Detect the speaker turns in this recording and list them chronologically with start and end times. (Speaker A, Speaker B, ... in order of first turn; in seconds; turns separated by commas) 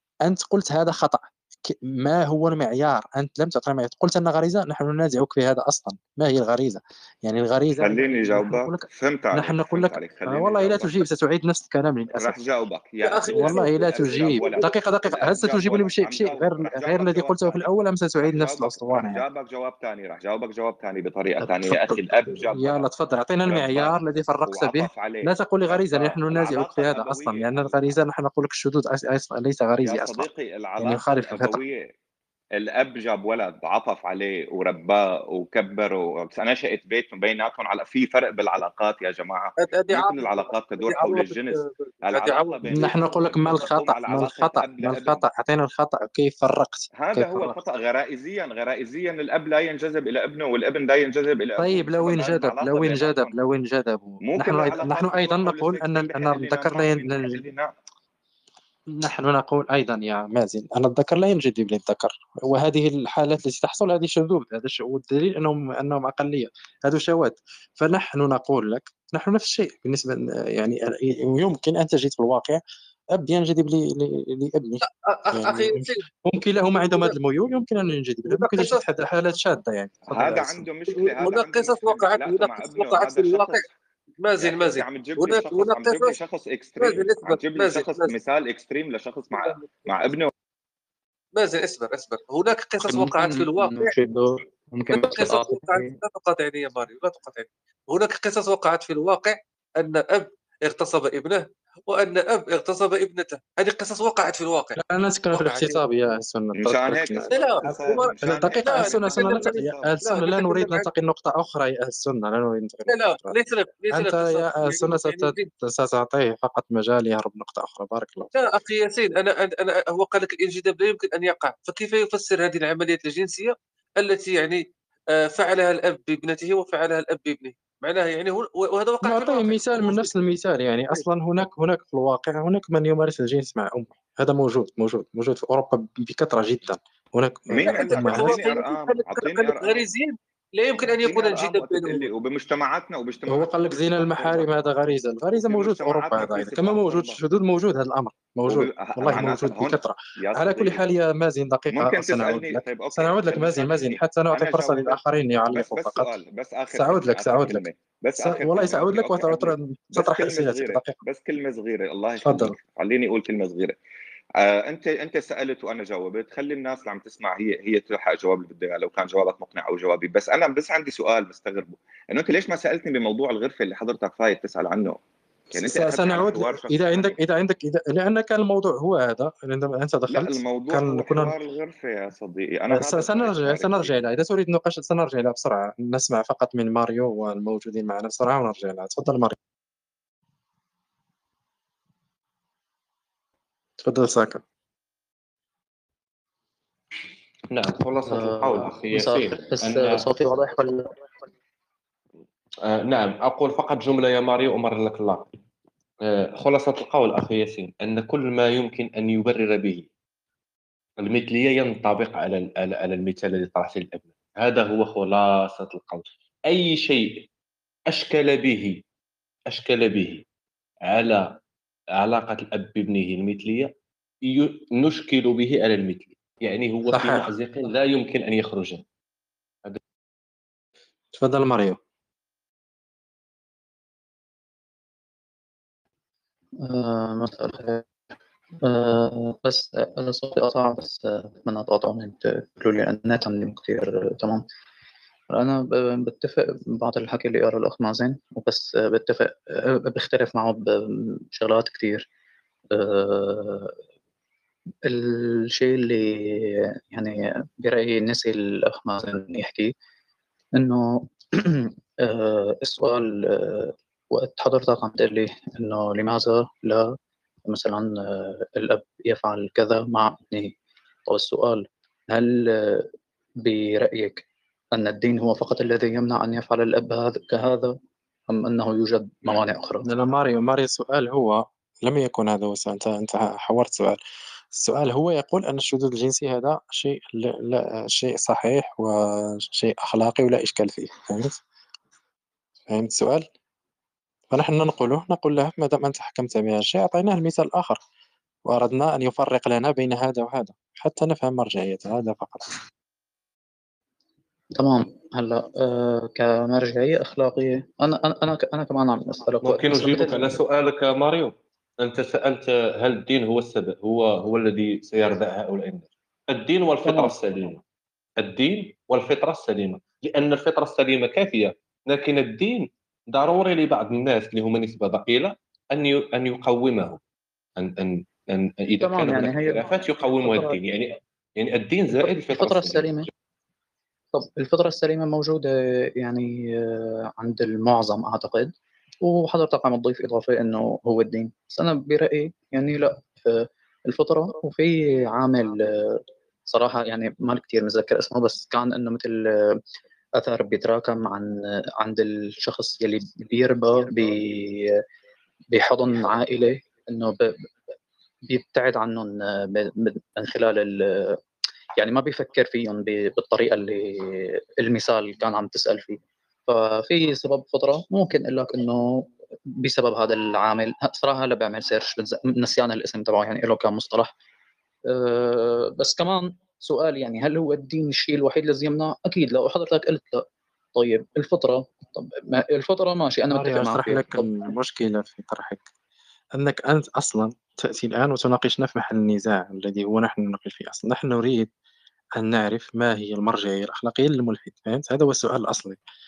Speaker A: 0.2-12.4, Speaker B: 7.8-11.1, Speaker B: 12.1-17.7, Speaker C: 13.0-13.7, Speaker A: 13.3-19.2, Speaker B: 18.2-22.9, Speaker A: 21.4-30.3, Speaker B: 23.5-27.9, Speaker B: 29.9-31.8, Speaker A: 30.8-31.6, Speaker B: 32.6-41.6, Speaker C: 39.6-42.9, Speaker B: 42.1-45.2, Speaker A: 42.7-47.5, Speaker B: 47.0-53.3, Speaker A: 51.6-57.4, Speaker B: 54.2-57.7, Speaker A: 58.9-72.6, Speaker A: 73.2-74.8, Speaker C: 74.8-76.0, Speaker A: 75.3-80.7, Speaker C: 76.8-77.1, Speaker C: 78.3-78.9, Speaker B: 80.1-83.7, Speaker C: 80.9-83.6, Speaker C: 84.2-86.2, Speaker B: 84.4-90.3, Speaker C: 86.8-88.1, Speaker C: 89.3-89.7, Speaker C: 91.4-94.0, Speaker D: 92.8-96.0, Speaker C: 94.9-104.8, Speaker A: 104.8-113.4, Speaker C: 105.4-105.8, Speaker B: 106.6-109.9, Speaker C: 107.3-110.9, Speaker C: 112.9-115.5, Speaker A: 113.9-118.3, Speaker C: 118.3-130.4, Speaker A: 129.0-138.5, Speaker B: 137.5-139.9, Speaker C: 137.6-142.1, Speaker B: 140.9-144.5, Speaker A: 143.3-156.2, Speaker B: 145.3-147.2, Speaker B: 148.5-150.9, Speaker B: 151.7-155.0, Speaker B: 155.5-163.8, Speaker A: 156.7-157.7, Speaker A: 158.2-161.0, Speaker A: 162.2-162.6, Speaker B: 164.4-175.0, Speaker B: 175.5-177.2, Speaker A: 175.5-181.3, Speaker B: 180.1-183.9, Speaker A: 182.7-189.4, Speaker A: 193.8-194.4, Speaker E: 197.5-200.1, Speaker D: 198.1-200.9, Speaker E: 202.7-205.3, Speaker E: 206.0-209.9, Speaker E: 211.0-217.3, Speaker E: 217.9-218.8, Speaker E: 219.5-220.2, Speaker E: 220.9-221.4, Speaker E: 222.0-223.7, Speaker E: 224.2-228.8, Speaker A: 226.9-227.3, Speaker A: 231.1-231.8, Speaker D: 236.6-237.8, Speaker D: 238.6-244.4, Speaker D: 245.3-252.1, Speaker D: 252.7-253.8, Speaker D: 254.9-259.7, Speaker D: 260.6-266.9, Speaker D: 267.5-270.5, Speaker D: 271.1-272.9, Speaker D: 273.4-277.7, Speaker D: 278.3-279.9, Speaker A: 279.9-284.0, Speaker A: 284.5-291.4, Speaker A: 292.7-293.3, Speaker A: 294.3-297.8, Speaker A: 298.5-302.5, Speaker D: 304.6-310.4, Speaker E: 309.4-317.6, Speaker E: 318.2-327.0, Speaker E: 327.6-333.1, Speaker D: 328.8-330.6, Speaker D: 332.0-333.1, Speaker D: 334.1-349.6, Speaker D: 350.2-354.7, Speaker D: 355.5-357.3, Speaker D: 358.3-361.2, Speaker D: 361.8-374.1, Speaker D: 374.9-384.4, Speaker A: 383.3-385.7, Speaker A: 386.4-391.5, Speaker A: 392.2-395.8